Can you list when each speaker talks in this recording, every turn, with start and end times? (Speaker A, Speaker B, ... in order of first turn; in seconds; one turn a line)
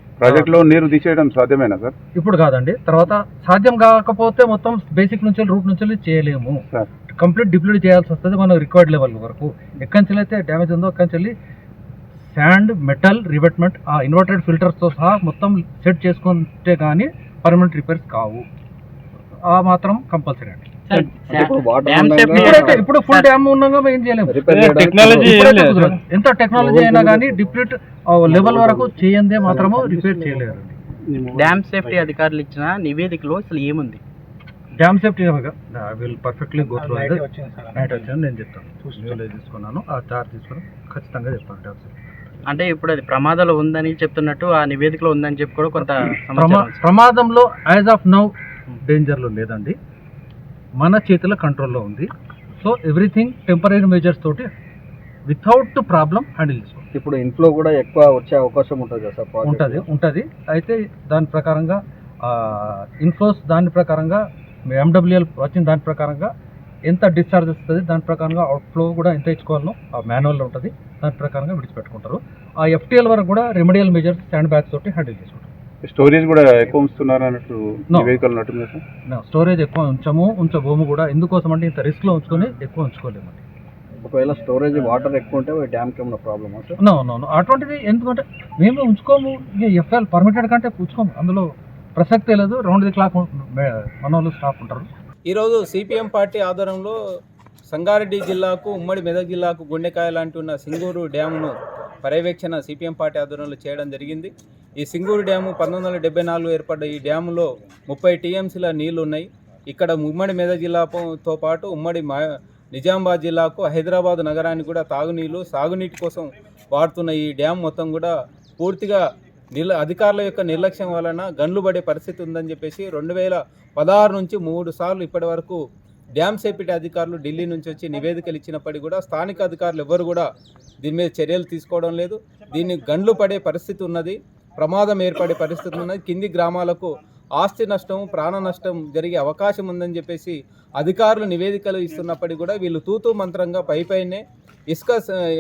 Speaker A: 0.2-1.9
Speaker B: 0.2-0.6
Speaker B: 2.1-11.4
Speaker B: 12.3-18.5
Speaker B: 19.5-21.2
Speaker C: 20.9-23.3
Speaker D: 21.3-22.9
Speaker B: 22.4-30.8
Speaker D: 24.3-25.5
Speaker E: 25.2-25.9
Speaker D: 26.6-27.6
Speaker D: 28.3-30.6
Speaker C: 31.3-34.0
Speaker A: 31.3-31.9
Speaker B: 34.8-42.0
Speaker E: 36.8-37.2
Speaker C: 42.5-46.8
Speaker B: 46.4-48.3
Speaker B: 48.9-49.8
Speaker B: 50.8-54.5
Speaker B: 55.3-56.9
Speaker D: 56.9-59.9
Speaker B: 59.5-66.3
Speaker B: 66.9-75.5
Speaker A: 75.8-78.8
Speaker B: 77.9-78.2
Speaker B: 79.1-83.4
Speaker D: 84.0-86.8
Speaker B: 86.8-94.9
Speaker E: 95.3-97.0
Speaker E: 97.7-112.2
Speaker E: 112.7-119.0
Speaker E: 119.5-125.6
Speaker E: 126.2-130.3
Speaker E: 130.8-145.0